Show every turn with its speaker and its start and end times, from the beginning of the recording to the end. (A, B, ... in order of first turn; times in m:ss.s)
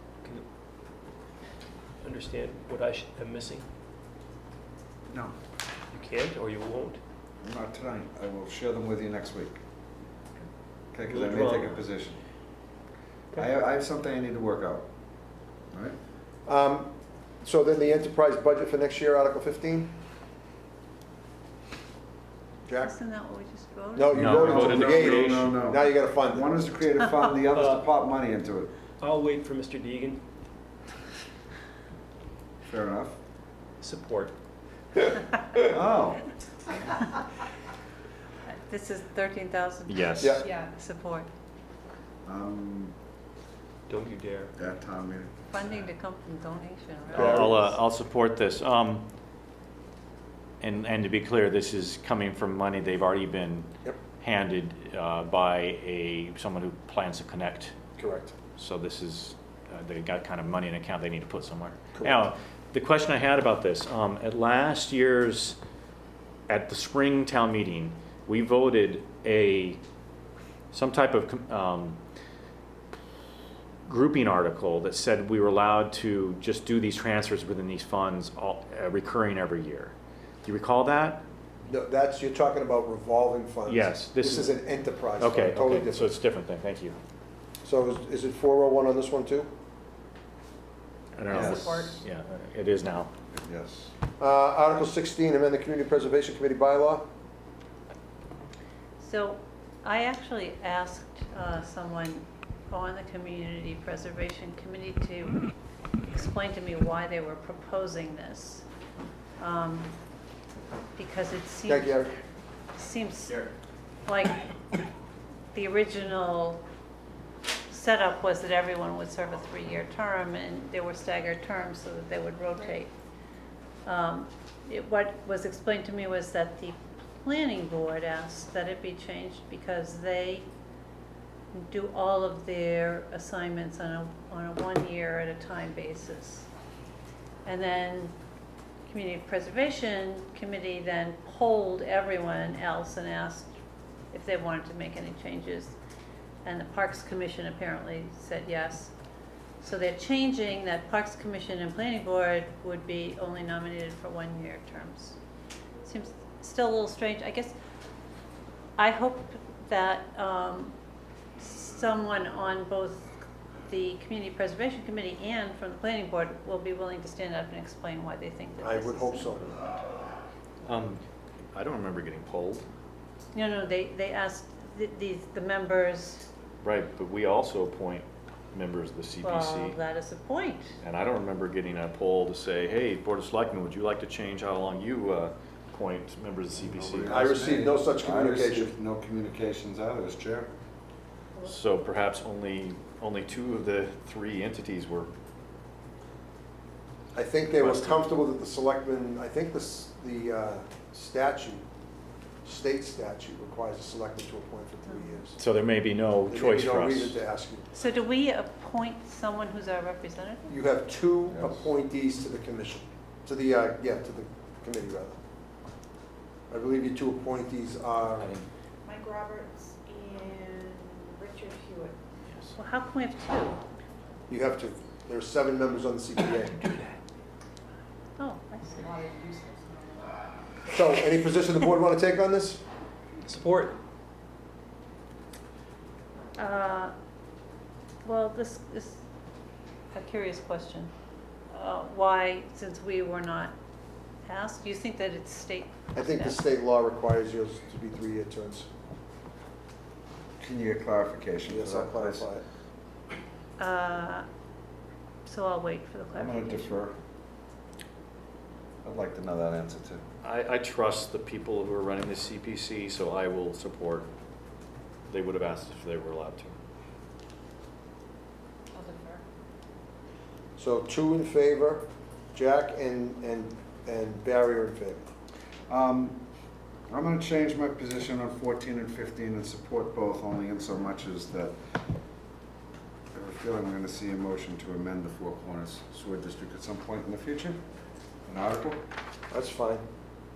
0:02.0-0:03.6 A
0:05.1-0:05.3 B
0:05.9-0:07.0 A
0:07.4-0:09.6 B
0:10.9-0:12.2 B
0:11.0-0:11.8 A
0:13.4-0:14.8 B
0:16.4-0:19.9 C
0:22.7-0:23.0 C
0:22.8-0:24.2 D
0:23.9-0:26.6 C
0:24.1-0:25.6 E
0:24.3-0:28.7 B
0:27.5-0:27.9 A
0:29.0-0:30.2 A
0:32.6-0:33.2 B
0:33.8-0:34.3 A
0:35.6-0:36.3 B
0:38.4-0:41.3 D
0:39.9-0:40.4 E
0:42.2-0:42.9 B
0:43.9-0:44.5 A
0:44.6-0:45.3 B
0:45.5-0:47.6 D
0:47.1-0:47.6 C
0:47.1-0:49.0 E
0:50.6-0:53.7 E
0:54.2-0:57.7 E
0:58.0-0:58.3 C
0:58.6-1:05.6 E
1:01.9-1:02.2 C
1:06.5-1:09.8 E
1:10.7-1:12.0 E
1:13.8-1:19.9 E
1:20.4-1:21.2 E
1:21.6-1:26.1 C
1:23.7-1:27.0 E
1:27.6-1:29.5 C
1:31.1-1:33.1 E
1:31.3-1:31.7 B
1:33.3-1:33.9 B
1:34.2-1:37.0 C
1:39.0-1:45.4 D
1:46.1-1:48.6 D
1:49.4-1:49.9 D
1:51.0-1:52.0 D
1:51.6-1:52.1 C
1:52.7-1:53.4 D
1:54.0-1:54.4 D
1:55.5-1:56.6 D
1:57.7-2:02.9 D
2:03.8-2:10.4 D
2:11.5-2:16.5 D
2:17.4-2:18.1 D
2:18.9-2:23.5 D
2:24.1-2:25.7 D
2:26.4-2:28.9 D
2:29.6-2:35.2 D
2:35.8-2:37.5 D
2:38.8-2:40.7 D
2:41.4-2:43.1 D
2:43.7-2:49.5 D
2:48.6-2:49.6 C
2:50.6-2:51.0 E
2:51.5-2:52.6 E
2:53.3-2:56.2 D
2:56.6-2:59.8 E
2:59.2-3:00.8 D
3:00.8-3:07.3 E
3:06.6-3:10.5 B
3:07.0-3:08.7 C
3:11.4-3:15.1 E
3:17.1-3:21.6 C
3:17.5-3:18.1 E
3:22.4-3:25.4 C
3:25.4-3:27.2 E
3:26.3-3:27.7 C
3:27.7-3:30.6 D
3:30.5-3:35.2 C
3:31.3-3:31.7 B
3:36.5-3:38.3 C
3:38.2-3:38.4 E
3:38.8-3:41.9 F
3:42.6-3:43.6 D
3:44.3-3:46.7 C
3:48.2-3:49.0 D
3:49.0-3:49.5 F
3:50.7-3:52.6 C
3:53.2-3:53.8 A
3:56.4-3:56.9 D
3:58.0-3:59.0 D
3:59.9-4:00.9 D
4:01.5-4:03.5 D
4:04.2-4:06.4 D
4:05.9-4:08.7 C
4:10.4-4:12.3 B
4:11.5-4:12.4 C
4:13.6-4:14.2 D
4:15.2-4:16.8 D
4:16.1-4:16.9 B
4:18.8-4:20.0 B
4:20.2-4:24.1 E
4:25.1-4:26.6 E
4:28.8-4:29.2 F
4:30.6-4:35.1 C
4:35.7-4:36.2 B
4:36.9-4:41.6 B
4:43.1-4:47.6 B
4:48.3-4:48.8 B
4:49.3-4:49.8 C